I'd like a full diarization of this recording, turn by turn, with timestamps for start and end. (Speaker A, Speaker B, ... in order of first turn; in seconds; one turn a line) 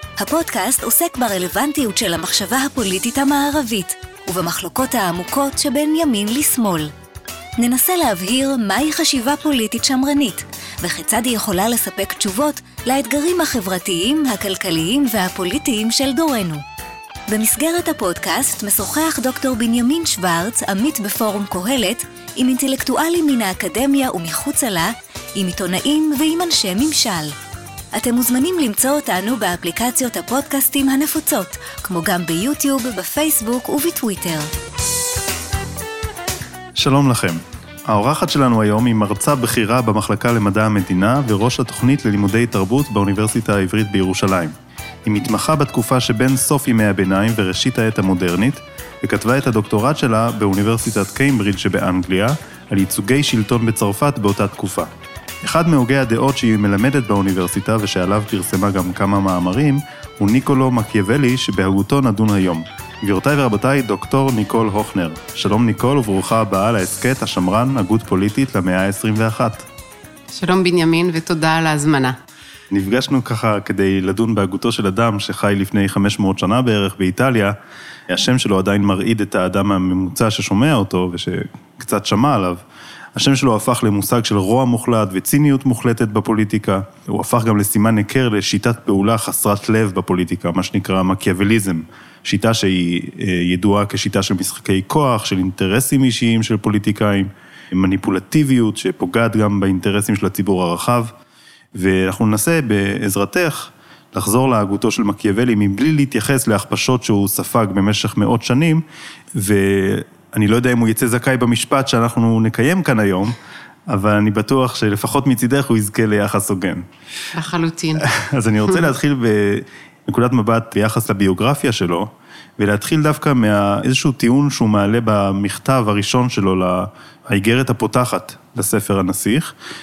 Speaker A: 0.2-6.9
Speaker A: 7.6-16.6
Speaker A: 17.3-27.3
Speaker A: 27.9-34.5
Speaker B: 36.8-44.5
Speaker B: 45.0-54.9
Speaker B: 55.4-69.7
Speaker C: 70.3-72.2
Speaker B: 72.7-77.5
Speaker B: 78.1-82.6
Speaker B: 83.1-101.1
Speaker B: 101.7-108.8
Speaker B: 109.3-113.4
Speaker B: 113.9-116.8
Speaker C: 117.3-118.1
Speaker B: 118.0-129.5